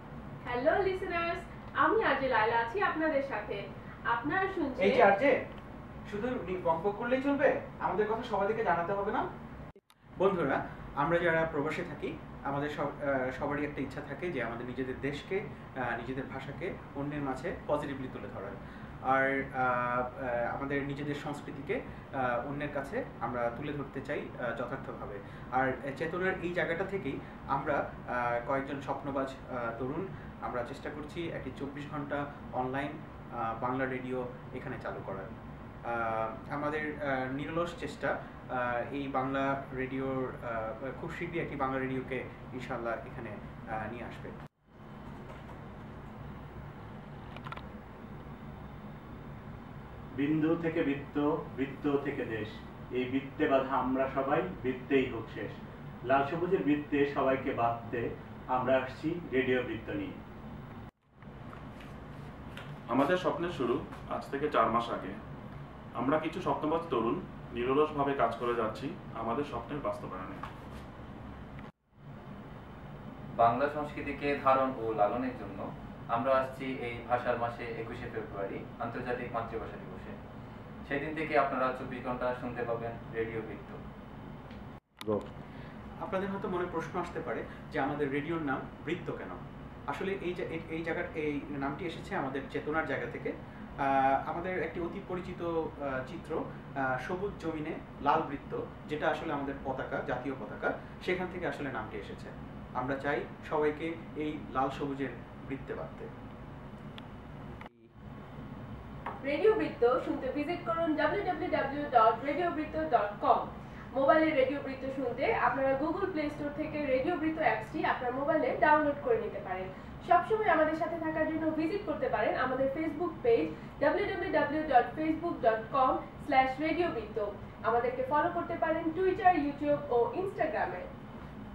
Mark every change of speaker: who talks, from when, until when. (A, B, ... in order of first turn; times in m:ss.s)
0:00.4-0:05.0 A
0:04.8-0:05.3 B
0:06.1-0:09.2 B
0:10.2-0:18.6 B
0:19.1-0:35.3 B
0:35.9-0:44.4 B
0:50.2-0:55.6 C
0:56.1-1:00.2 C
1:02.9-1:05.2 D
1:06.0-1:10.4 D
1:13.4-1:20.2 E
1:20.9-1:23.8 E
1:26.0-1:29.4 B
1:29.9-1:33.3 B
1:33.9-1:36.4 B
1:37.0-1:46.1 B
1:49.2-2:10.9 A